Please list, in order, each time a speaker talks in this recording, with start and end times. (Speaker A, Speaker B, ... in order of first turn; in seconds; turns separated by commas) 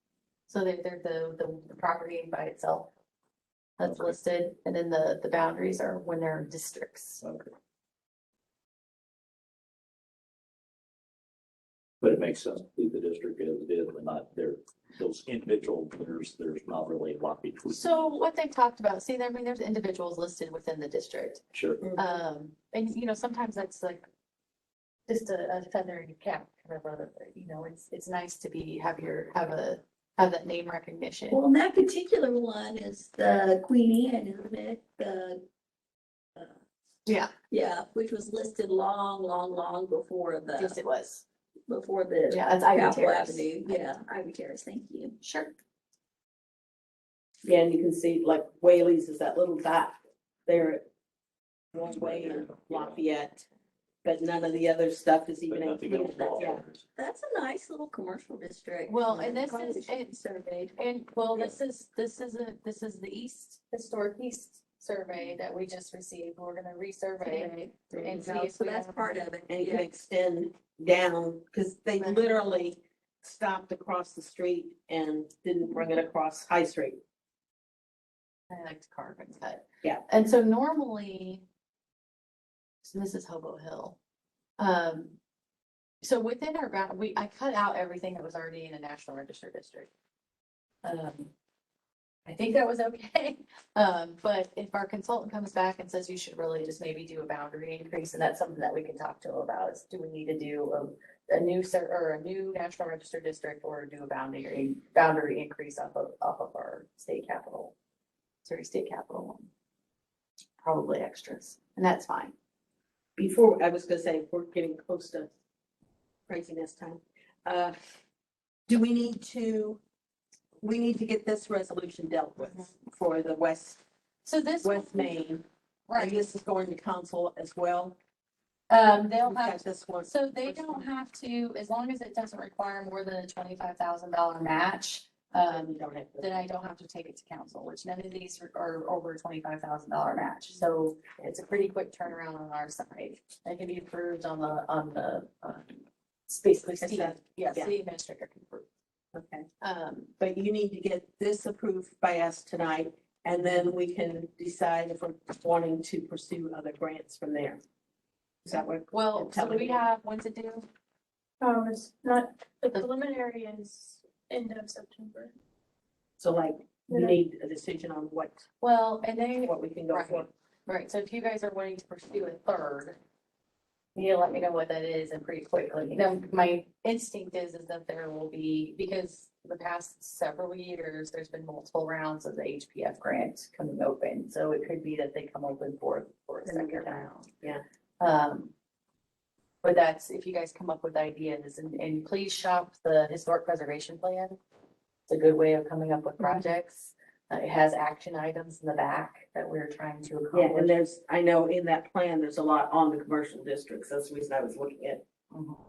Speaker A: 0.5-2.9, Speaker A: 3.8-7.2, Speaker B: 3.9-4.2, Speaker B: 7.2-7.5, Speaker B: 12.0-18.1, Speaker A: 17.7-21.4, Speaker B: 21.5-21.8, Speaker A: 22.0-24.1, Speaker A: 25.1-31.4, Speaker C: 31.3-35.5, Speaker A: 37.1-37.3, Speaker C: 37.5-40.8, Speaker A: 40.6-41.2, Speaker C: 41.7-45.2, Speaker A: 42.3-43.8, Speaker A: 45.2-45.5, Speaker D: 47.4-50.9, Speaker D: 51.7-53.5, Speaker B: 51.9-53.0, Speaker D: 54.0-56.6, Speaker B: 55.5-56.8, Speaker C: 57.0-60.8, Speaker A: 58.9-60.1, Speaker A: 60.8-69.2, Speaker C: 67.2-69.9, Speaker D: 69.5-77.0, Speaker A: 78.5-81.4, Speaker A: 82.8-84.0, Speaker A: 84.6-85.2, Speaker A: 86.0-89.9, Speaker A: 90.8-91.3, Speaker A: 92.3-107.7, Speaker A: 108.5-109.5, Speaker A: 110.6-112.3, Speaker D: 113.2-115.3, Speaker D: 116.3-117.8, Speaker D: 118.7-119.8, Speaker D: 120.6-123.8, Speaker A: 124.2-125.1, Speaker D: 124.6-125.5, Speaker A: 125.9-126.2, Speaker D: 126.0-128.0, Speaker A: 128.7-148.7, Speaker D: 129.2-130.8, Speaker D: 135.5-136.4, Speaker D: 146.7-147.7, Speaker D: 149.1-149.5, Speaker A: 149.6-150.1, Speaker D: 150.2-157.6, Speaker A: 153.4-153.6, Speaker D: 158.4-159.8, Speaker A: 158.9-160.7, Speaker E: 161.4-165.3, Speaker D: 166.2-168.4, Speaker E: 166.9-167.2, Speaker A: 168.6-173.0, Speaker D: 169.4-170.3, Speaker A: 174.0-187.3, Speaker D: 186.4-187.6, Speaker A: 188.0-188.5, Speaker A: 189.6-194.4, Speaker A: 195.1-200.7, Speaker D: 200.3-205.0, Speaker A: 205.3-205.6